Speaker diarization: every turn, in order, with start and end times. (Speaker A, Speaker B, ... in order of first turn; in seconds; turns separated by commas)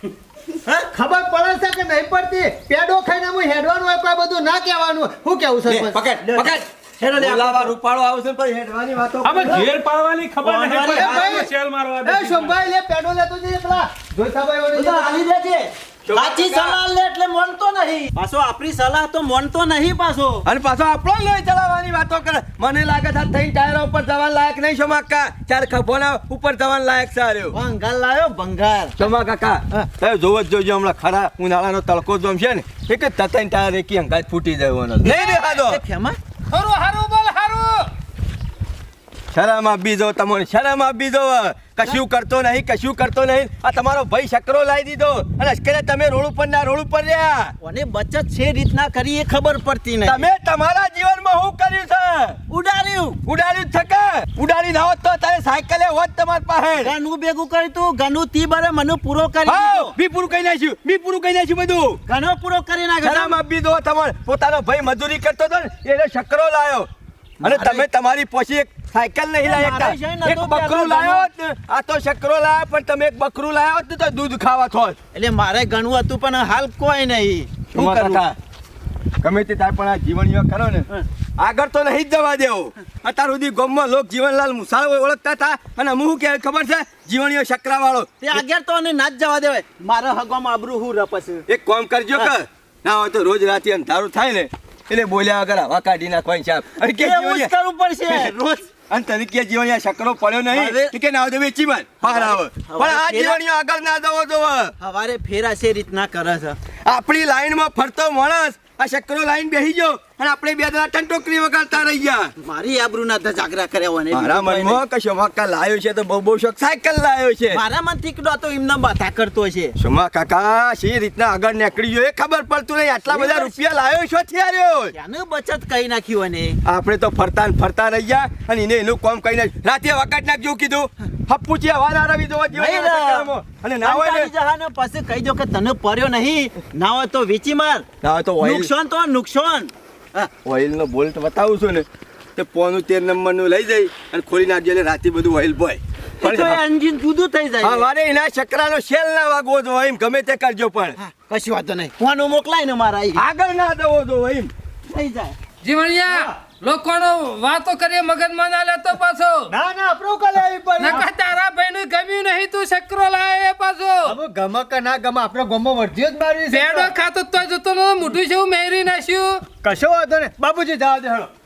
Speaker A: 0.7-0.9, Speaker B: 0.9-6.0, Speaker A: 5.7-7.7, Speaker C: 5.9-9.7, Speaker D: 9.2-12.6, Speaker A: 10.4-11.5, Speaker B: 11.0-11.5, Speaker B: 12.0-15.2, Speaker A: 14.7-20.4, Speaker C: 16.1-16.8, Speaker C: 20.4-27.6, Speaker A: 27.5-29.1, Speaker C: 29.0-35.8, Speaker A: 35.0-36.2, Speaker E: 35.1-35.5, Speaker E: 36.5-37.9, Speaker C: 39.3-47.5, Speaker A: 47.6-50.2, Speaker C: 50.0-52.4, Speaker A: 52.5-53.2, Speaker C: 53.2-56.9, Speaker A: 56.8-59.9, Speaker C: 59.5-62.0, Speaker A: 62.1-63.4, Speaker C: 63.0-66.9, Speaker A: 67.4-67.9, Speaker C: 67.4-75.0, Speaker A: 69.4-71.3, Speaker A: 75.1-78.3, Speaker C: 77.7-78.3, Speaker C: 79.2-88.4, Speaker A: 88.2-91.5, Speaker C: 91.5-97.5, Speaker A: 96.9-98.7, Speaker C: 98.0-98.4, Speaker C: 98.9-104.7, Speaker A: 100.5-100.9, Speaker A: 102.0-103.4, Speaker A: 104.8-106.6, Speaker C: 106.8-112.3, Speaker A: 112.4-114.8, Speaker C: 114.1-117.6, Speaker A: 117.5-119.8, Speaker C: 119.8-124.9, Speaker A: 123.1-123.6, Speaker A: 124.9-126.6, Speaker C: 126.7-134.3, Speaker A: 132.5-137.9, Speaker C: 138.0-138.7, Speaker A: 138.4-140.3, Speaker C: 140.4-146.6, Speaker A: 146.2-147.9, Speaker C: 147.6-151.0, Speaker A: 151.0-153.2, Speaker C: 153.2-154.5, Speaker A: 154.9-155.4, Speaker E: 155.6-159.5, Speaker B: 159.5-161.1, Speaker E: 160.8-164.2, Speaker B: 164.1-166.9, Speaker E: 166.5-169.4, Speaker B: 169.6-171.3